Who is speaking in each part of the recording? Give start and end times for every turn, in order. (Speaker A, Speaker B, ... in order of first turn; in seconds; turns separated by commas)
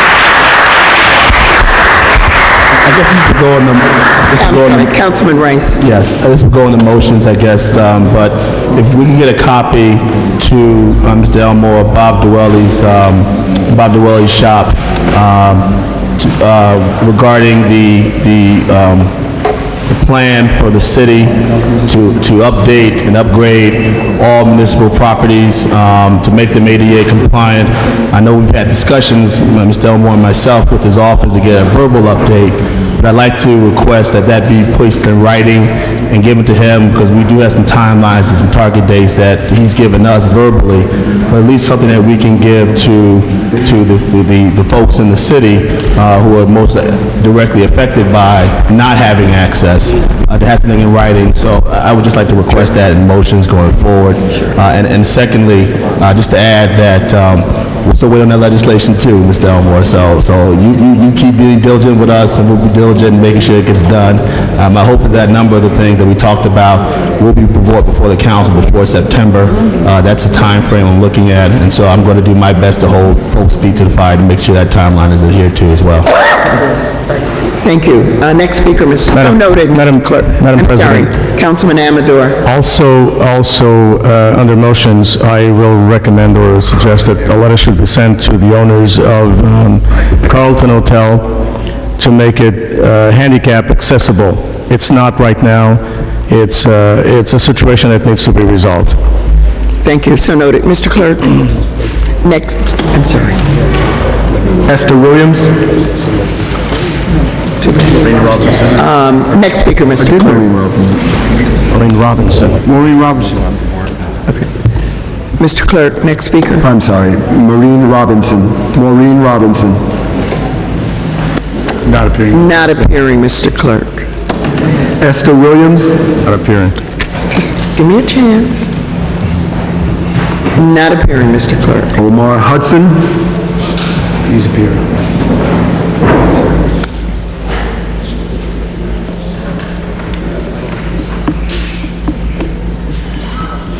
Speaker A: 2.8-4.9, Speaker B: 4.4-5.8, Speaker A: 5.8-19.1, Speaker A: 19.9-76.1, Speaker B: 77.6-82.4, Speaker C: 79.1-81.1, Speaker C: 82.5-91.4, Speaker C: 92.0-99.0, Speaker B: 99.8-101.5, Speaker B: 102.2-103.4, Speaker D: 104.7-105.5, Speaker B: 107.6-110.4, Speaker D: 110.0-111.0, Speaker C: 111.7-112.6, Speaker B: 115.4-116.7, Speaker D: 116.6-119.8, Speaker B: 122.3-124.1, Speaker D: 125.0-126.0, Speaker C: 126.2-126.8, Speaker B: 127.3-128.7, Speaker B: 130.6-131.9, Speaker D: 131.9-133.1